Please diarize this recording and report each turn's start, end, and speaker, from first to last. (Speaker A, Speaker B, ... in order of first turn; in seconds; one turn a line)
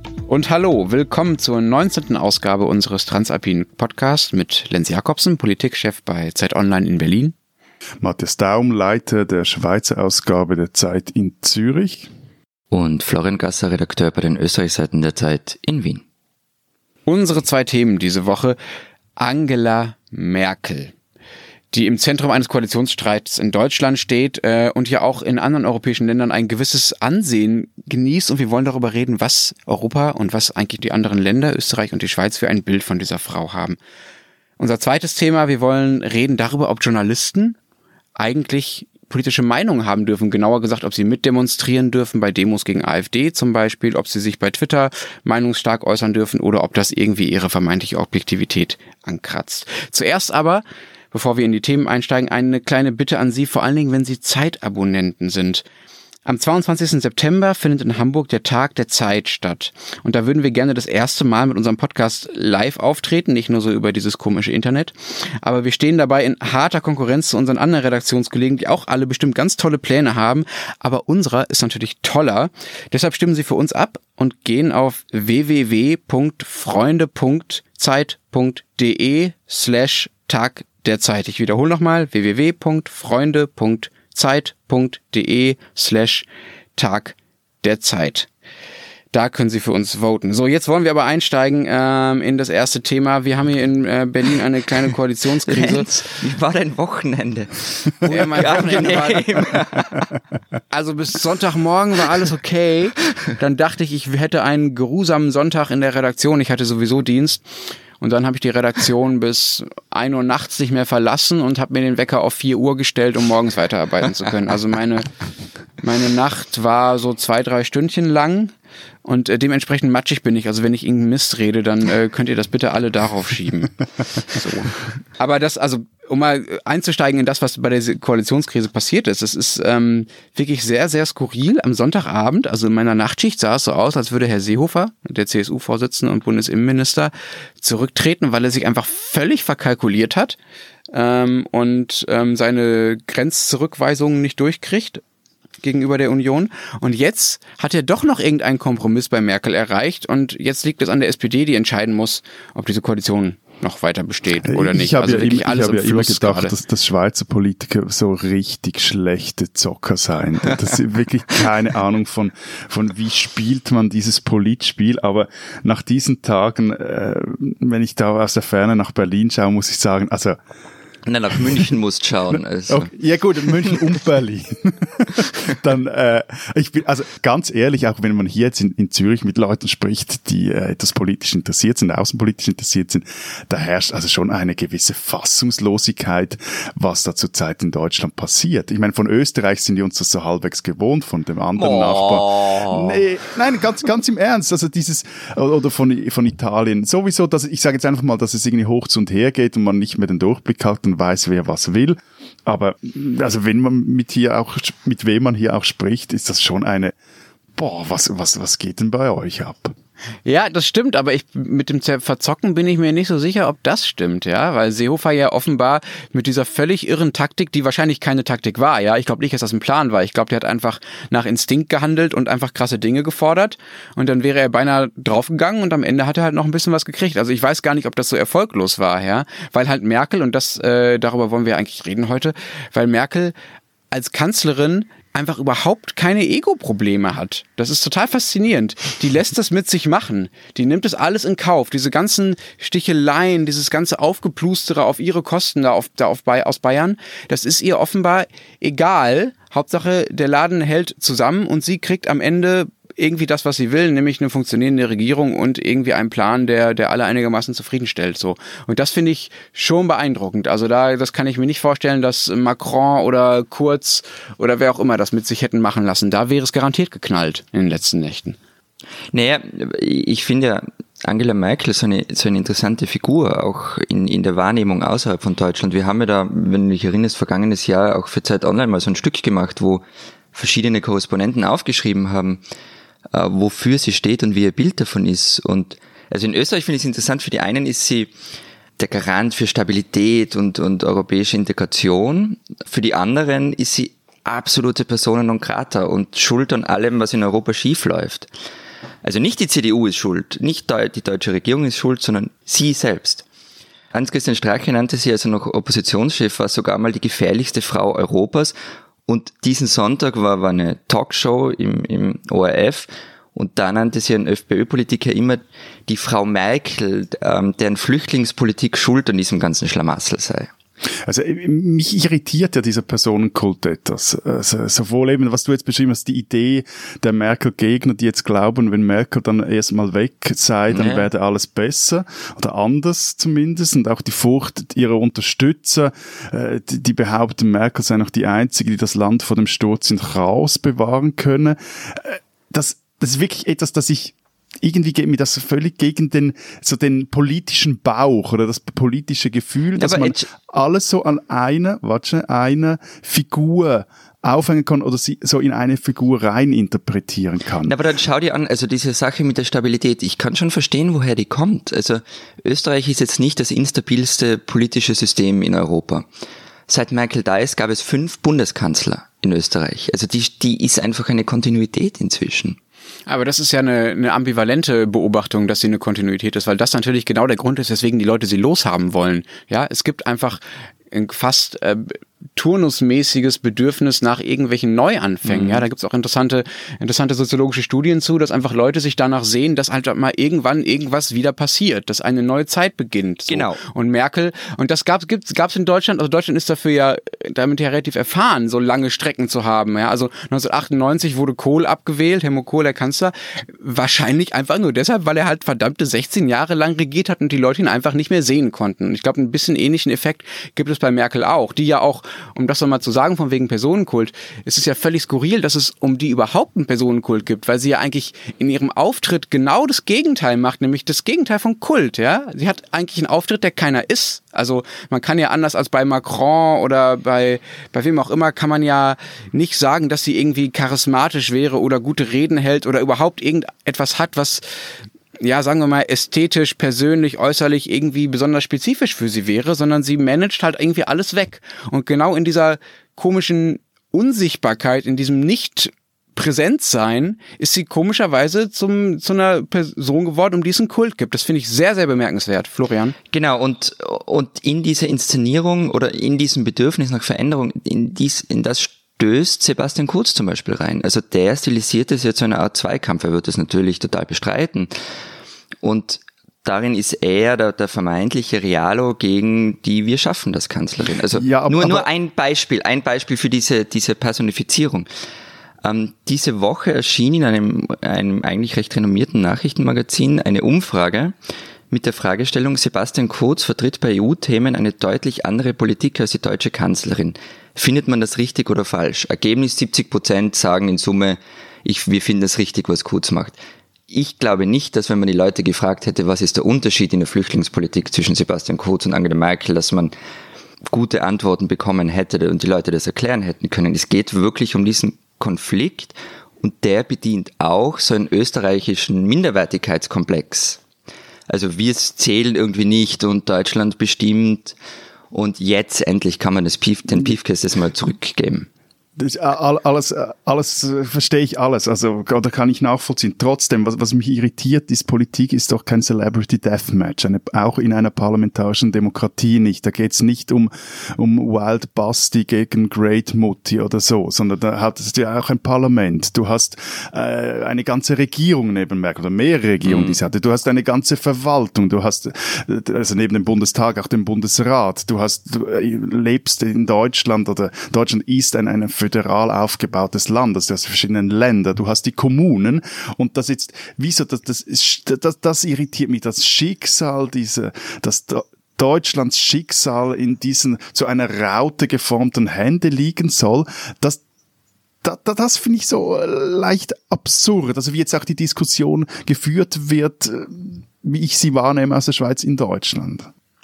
Speaker A: 0.3-7.3
Speaker B: 8.0-12.1
Speaker C: 12.7-16.0
Speaker A: 17.1-18.6
Speaker A: 19.2-20.9
Speaker A: 21.7-33.8
Speaker A: 34.6-37.5
Speaker A: 38.2-55.6
Speaker A: 56.2-86.2
Speaker A: 86.8-88.3
Speaker A: 89.1-95.9
Speaker C: 95.5-100.1
Speaker A: 98.0-99.6
Speaker A: 100.7-107.4
Speaker A: 108.0-115.1
Speaker A: 115.8-118.5
Speaker A: 119.0-140.4
Speaker A: 140.9-145.0
Speaker A: 145.6-156.5
Speaker B: 154.4-170.4
Speaker C: 171.1-172.9
Speaker B: 171.4-171.6
Speaker B: 172.3-206.9
Speaker C: 191.6-193.0
Speaker B: 207.6-209.7
Speaker A: 210.2-233.3
Speaker A: 233.9-268.4
Speaker C: 269.1-282.4
Speaker C: 283.1-288.1
Speaker C: 288.8-298.3
Speaker C: 299.0-303.2
Speaker C: 303.9-308.5
Speaker C: 309.1-320.5
Speaker B: 321.1-357.7
Speaker C: 330.7-331.1
Speaker C: 349.7-350.2
Speaker C: 357.6-366.1
Speaker C: 366.7-372.6
Speaker A: 373.1-434.4
Speaker C: 385.2-385.6
Speaker C: 393.3-393.6
Speaker A: 435.2-452.9
Speaker C: 453.1-464.7
Speaker C: 465.6-474.9
Speaker B: 471.1-471.9
Speaker C: 475.6-481.1
Speaker C: 481.7-493.4
Speaker C: 493.9-499.9
Speaker C: 500.7-510.6
Speaker C: 511.3-514.5
Speaker C: 515.1-518.5
Speaker B: 519.0-564.0
Speaker C: 539.6-540.0
Speaker B: 564.8-573.1